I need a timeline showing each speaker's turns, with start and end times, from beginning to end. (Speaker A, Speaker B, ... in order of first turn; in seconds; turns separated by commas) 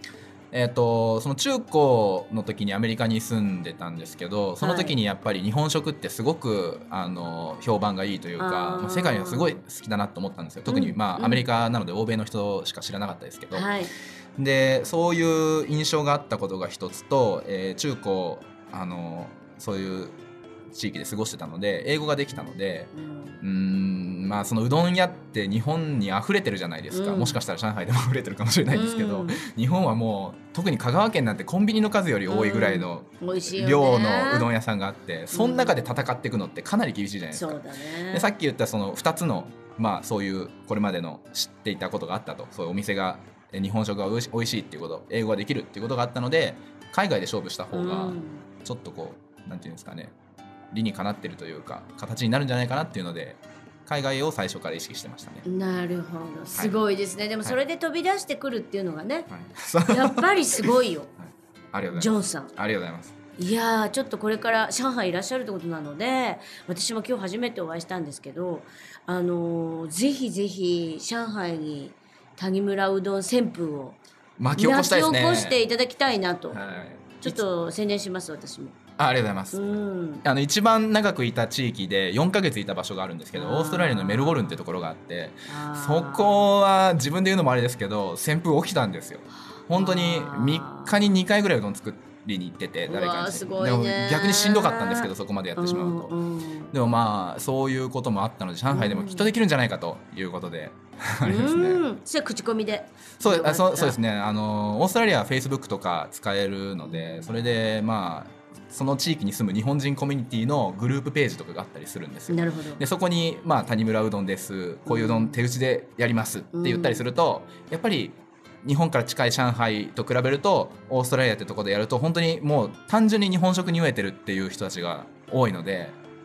Speaker A: 0.5-13.7, Speaker B: 4.6-5.0, Speaker B: 8.4-9.6, Speaker B: 10.7-11.5, Speaker B: 13.5-13.9, Speaker A: 14.4-20.2, Speaker A: 20.7-50.1, Speaker B: 22.9-23.4, Speaker B: 26.9-27.4, Speaker B: 28.7-29.4, Speaker B: 32.3-34.5, Speaker B: 35.3-35.7, Speaker B: 37.3-38.3, Speaker B: 47.7-48.4, Speaker A: 50.7-55.5, Speaker B: 55.4-59.3, Speaker A: 59.3-60.8, Speaker B: 59.9-61.1, Speaker A: 61.7-63.1, Speaker B: 61.9-62.5, Speaker B: 63.4-74.0, Speaker A: 74.4-75.6, Speaker B: 74.5-76.6, Speaker A: 76.5-77.5, Speaker B: 77.2-78.8, Speaker A: 79.0-96.1, Speaker B: 79.5-80.2, Speaker B: 83.3-84.6, Speaker B: 85.5-86.5, Speaker B: 89.7-91.1, Speaker B: 92.8-96.7, Speaker A: 96.7-101.8, Speaker B: 98.7-99.3, Speaker B: 101.2-104.0, Speaker A: 103.2-126.0, Speaker B: 106.8-107.3, Speaker B: 112.3-112.8, Speaker B: 114.8-115.4, Speaker B: 116.5-117.0